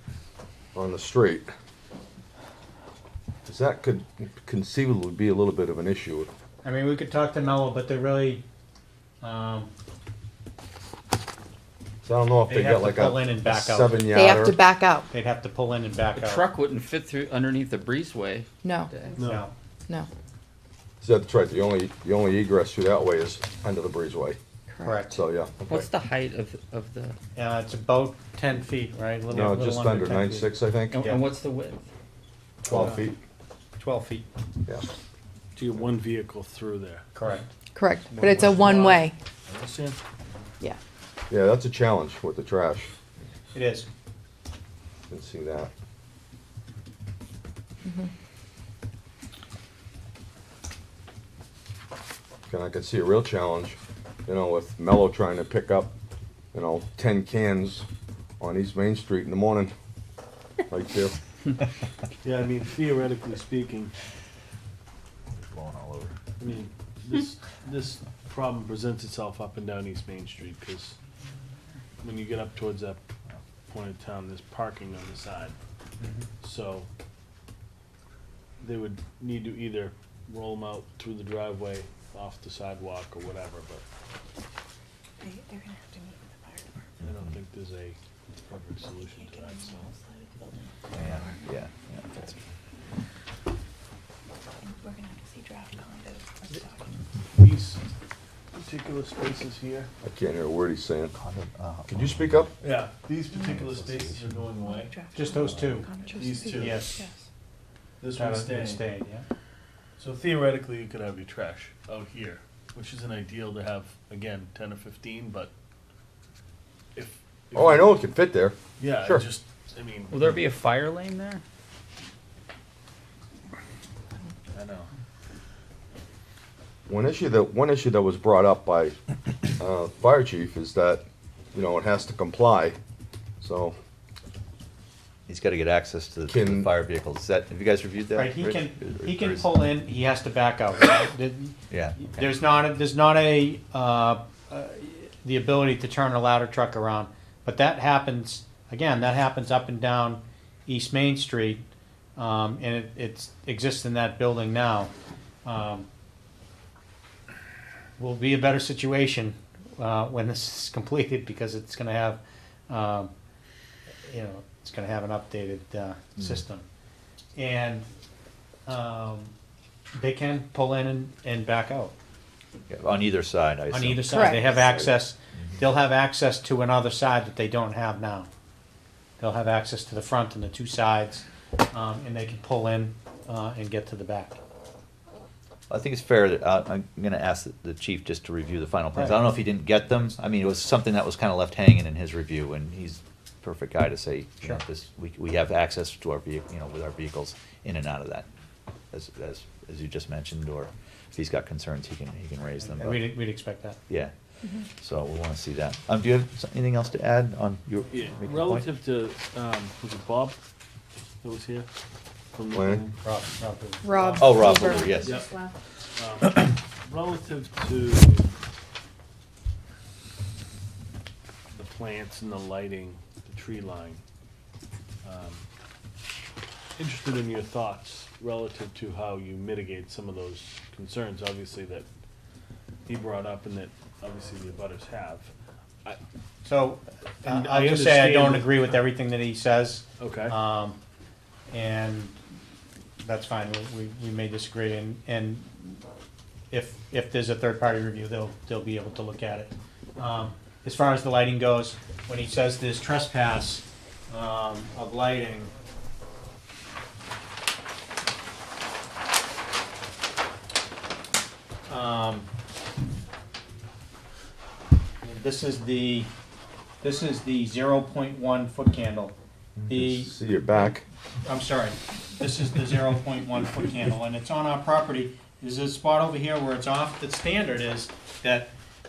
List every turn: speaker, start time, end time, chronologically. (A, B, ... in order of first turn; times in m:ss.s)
0:00.8-0:01.5 A
0:03.4-0:06.3 A
0:06.6-0:08.4 B
0:09.2-0:09.7 B
0:12.0-0:14.6 A
0:12.5-0:14.5 B
0:14.1-0:15.1 C
0:15.1-0:16.4 B
0:16.2-0:19.2 D
0:18.6-0:18.9 C
0:19.1-0:19.4 E
0:19.2-0:19.5 B
0:21.0-0:24.4 A
0:24.7-0:25.0 C
0:24.8-0:25.2 B
0:25.1-0:25.9 A
0:25.7-0:27.2 D
0:27.4-0:31.2 B
0:29.3-0:31.0 A
0:30.9-0:31.8 D
0:32.6-0:33.2 A
0:32.7-0:33.0 B
0:32.7-0:33.1 E
0:33.8-0:34.3 B
0:35.6-0:37.1 E
0:37.1-0:37.5 B
0:37.8-0:39.1 C
0:38.1-0:38.9 B
0:38.4-0:40.0 E
0:41.3-0:42.9 A
0:43.5-0:43.9 B
0:45.1-0:45.7 A
0:47.8-0:48.1 C
0:52.5-0:55.9 A
0:56.5-0:57.9 A
0:58.4-0:59.7 A
1:00.7-1:01.2 A
1:02.2-1:03.9 E
1:05.3-1:06.2 F
1:06.4-1:11.0 E
1:12.0-1:13.0 E
1:13.7-1:15.6 E
1:16.0-1:16.3 B
1:16.4-1:16.9 E
1:18.6-1:23.8 E
1:25.2-1:26.7 G
1:27.0-1:29.9 E
1:28.9-1:31.3 G
1:30.9-1:32.4 F
1:34.6-1:36.8 G
1:37.3-1:37.8 E
1:38.5-1:39.9 E
1:40.0-1:41.2 A
1:41.1-1:42.5 F
1:41.9-1:42.5 A
1:42.6-1:47.0 E
1:43.4-1:44.2 F
1:44.6-1:47.1 G
1:45.1-1:47.0 B
1:48.0-1:48.9 E
1:48.2-1:49.3 B
1:50.0-1:55.5 E
1:57.0-1:58.0 E
1:57.5-1:58.6 A
1:58.8-2:00.4 E
2:00.1-2:01.4 D
2:04.5-2:04.9 E
2:06.9-2:09.0 A
2:09.5-2:12.8 A
2:13.4-2:13.8 A
2:15.3-2:19.5 F
2:16.3-2:16.7 A
2:18.2-2:31.6 B
2:21.7-2:22.4 F
2:32.2-2:34.9 B
2:35.4-2:35.9 B
2:38.0-2:43.1 B
2:44.1-2:46.7 B
2:47.4-2:47.9 B
2:48.7-2:49.3 B
2:50.0-2:51.9 B
2:52.7-2:54.4 F
2:53.7-2:58.3 B
2:54.1-2:54.8 C
2:59.2-3:04.4 B
3:05.7-3:18.3 F
3:09.0-3:09.3 B
3:18.9-3:23.2 F
3:22.7-3:23.8 B
3:24.8-3:28.7 F
3:27.9-3:30.4 E
3:31.2-3:31.7 E
3:32.4-3:33.0 E
3:32.5-3:32.9 A
3:33.0-3:34.6 B
3:33.8-3:35.3 C
3:34.2-3:35.2 F
3:35.0-3:35.4 E
3:36.0-3:38.3 E
3:41.5-3:44.0 E
3:45.0-3:45.4 E
3:46.8-3:51.9 E
3:52.9-3:55.3 E
3:56.4-4:00.8 B
3:57.2-3:58.8 E
4:00.0-4:00.4 E
4:01.5-4:02.2 B
4:03.0-4:05.8 B
4:06.5-4:15.5 B
4:21.7-4:22.3 B
4:25.0-4:26.1 B
4:26.8-4:29.2 B
4:29.6-4:30.8 A
4:29.7-4:30.2 B
4:31.2-4:38.5 B